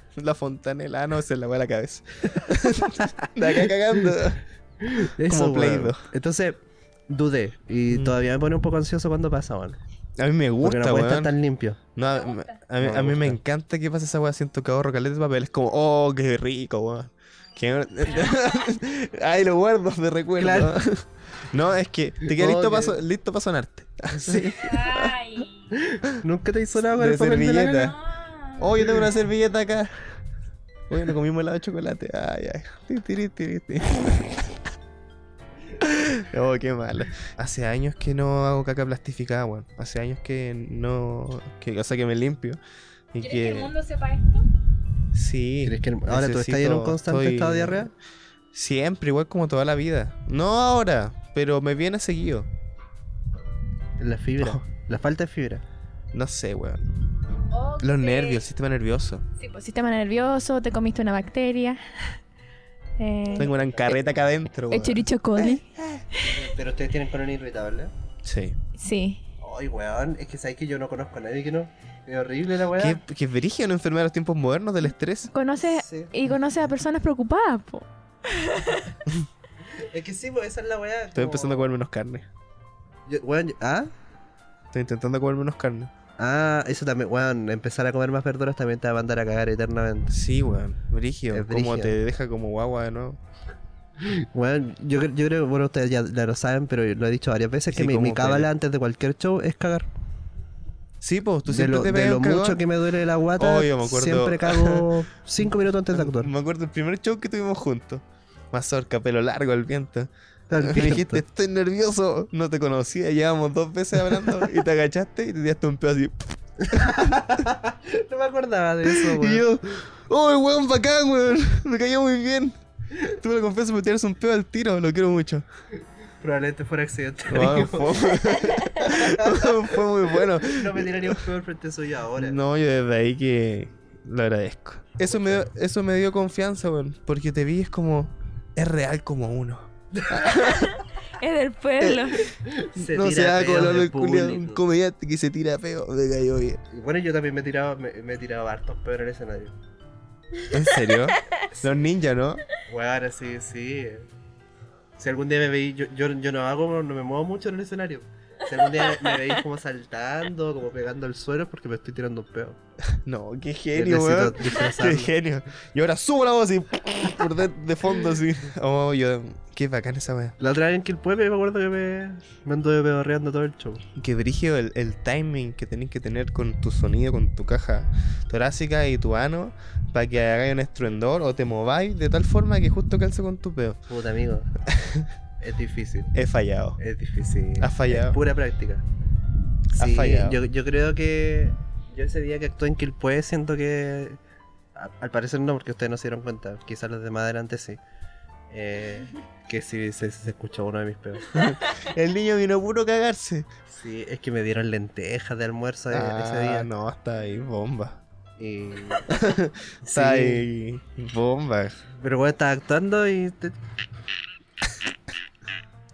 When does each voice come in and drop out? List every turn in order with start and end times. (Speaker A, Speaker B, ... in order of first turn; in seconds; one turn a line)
Speaker A: 0.1-6.0
Speaker B: 2.6-4.1
Speaker B: 4.8-9.8
Speaker A: 10.2-11.3
Speaker B: 10.6-11.8
Speaker A: 11.9-25.1
Speaker C: 12.1-12.6
Speaker B: 12.8-13.4
Speaker B: 20.4-20.8
Speaker B: 22.2-23.0
Speaker B: 24.1-24.5
Speaker C: 24.6-25.8
Speaker B: 25.7-27.9
Speaker A: 26.9-27.9
Speaker C: 27.9-28.6
Speaker A: 28.6-30.2
Speaker A: 30.9-34.6
Speaker A: 35.8-42.6
Speaker A: 43.1-43.7
Speaker C: 43.2-44.5
Speaker A: 45.1-47.9
Speaker B: 45.6-47.9
Speaker A: 48.5-52.5
Speaker B: 54.0-55.6
Speaker A: 56.1-56.9
Speaker C: 57.5-58.4
Speaker A: 57.8-59.2
Speaker C: 59.4-61.8
Speaker C: 63.0-64.0
Speaker B: 63.4-63.9
Speaker A: 63.4-66.1
Speaker C: 64.7-66.4
Speaker B: 66.2-67.9
Speaker A: 68.2-68.6
Speaker C: 68.8-69.2
Speaker B: 69.4-73.0
Speaker A: 72.8-75.3
Speaker C: 75.3-78.9
Speaker B: 75.6-76.2
Speaker B: 79.6-81.7
Speaker A: 81.1-82.3
Speaker B: 83.1-83.9
Speaker A: 84.7-85.9
Speaker B: 86.2-90.1
Speaker A: 90.1-93.2
Speaker B: 91.3-92.0
Speaker B: 94.0-99.9
Speaker A: 97.7-98.5
Speaker A: 101.0-102.6
Speaker B: 101.5-106.3
Speaker A: 103.4-104.9
Speaker A: 105.9-110.1
Speaker B: 110.5-111.2
Speaker A: 110.6-117.3
Speaker B: 116.7-119.4
Speaker A: 118.8-125.4
Speaker B: 126.2-129.8
Speaker A: 127.3-131.2
Speaker B: 130.4-132.4
Speaker A: 132.2-140.8
Speaker B: 135.1-135.4
Speaker B: 139.9-140.3
Speaker C: 140.3-142.3
Speaker A: 141.8-146.6
Speaker B: 142.3-144.6
Speaker B: 146.7-149.6
Speaker C: 150.4-151.5
Speaker A: 150.5-152.4
Speaker B: 152.6-154.1
Speaker B: 155.0-162.6
Speaker C: 158.8-159.4
Speaker A: 163.0-170.4
Speaker B: 163.7-165.1
Speaker B: 170.4-173.8
Speaker A: 173.9-183.8
Speaker B: 183.9-184.5
Speaker A: 184.7-185.1
Speaker B: 185.4-186.2
Speaker A: 186.1-186.8
Speaker B: 186.8-188.8
Speaker A: 187.6-188.2
Speaker B: 189.7-194.2
Speaker A: 189.8-190.4
Speaker B: 194.8-197.8
Speaker B: 198.5-201.4
Speaker A: 201.3-203.4
Speaker B: 203.7-206.7
Speaker A: 205.9-208.0
Speaker B: 208.4-209.1
Speaker A: 209.1-211.8
Speaker B: 209.8-210.5
Speaker B: 211.9-213.6